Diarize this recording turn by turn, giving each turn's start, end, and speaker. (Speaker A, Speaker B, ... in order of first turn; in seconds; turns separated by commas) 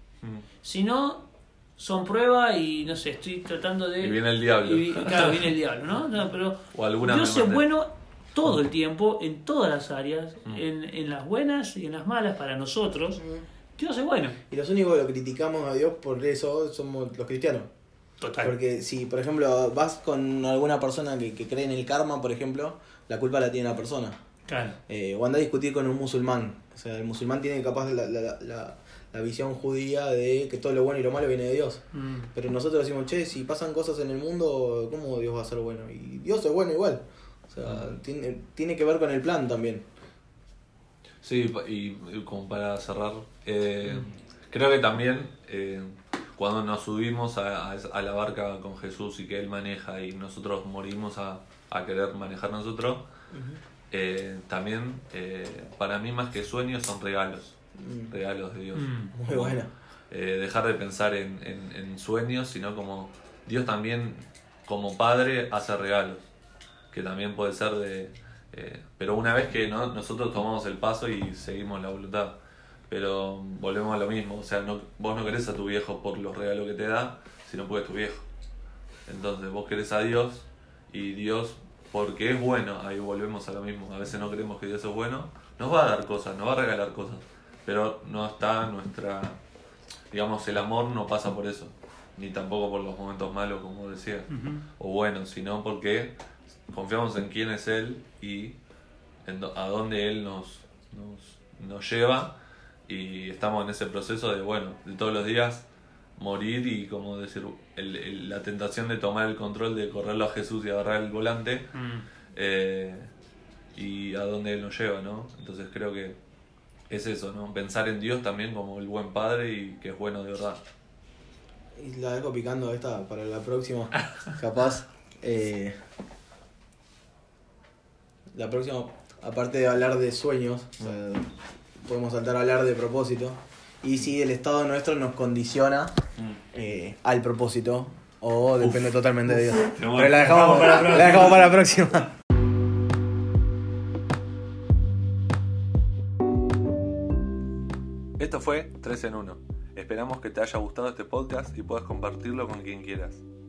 Speaker A: 0.6-13.2, Speaker B: 4.0-5.5, Speaker B: 6.7-7.6, Speaker C: 13.2-13.4, Speaker A: 13.8-14.4, Speaker C: 14.5-17.7, Speaker A: 18.2-18.5, Speaker C: 18.4-24.1, Speaker A: 24.5-24.8, Speaker C: 24.9-31.8, Speaker A: 31.9-32.3, Speaker C: 32.3-39.8, Speaker B: 37.6-37.9, Speaker B: 41.2-53.0, Speaker C: 53.3-53.6, Speaker B: 53.9-57.5, Speaker C: 57.8-58.1, Speaker B: 58.1-66.2, Speaker A: 58.7-59.1, Speaker C: 59.1-59.7, Speaker B: 66.9-72.4, Speaker B: 72.9-78.2, Speaker B: 79.1-89.4, Speaker B: 90.1-96.2, Speaker A: 94.3-94.6, Speaker B: 96.7-98.6, Speaker B: 99.2-102.3, Speaker B: 102.9-105.6, Speaker B: 106.2-111.7, Speaker A: 111.7-112.0, Speaker B: 112.3-113.1, Speaker B: 113.8-116.2, Speaker B: 116.9-120.6, Speaker C: 121.8-125.7, Speaker C: 128.3-131.3, Speaker C: 131.8-135.9, Speaker C: 136.5-142.1, Speaker B: 138.6-141.5, Speaker B: 148.2-153.2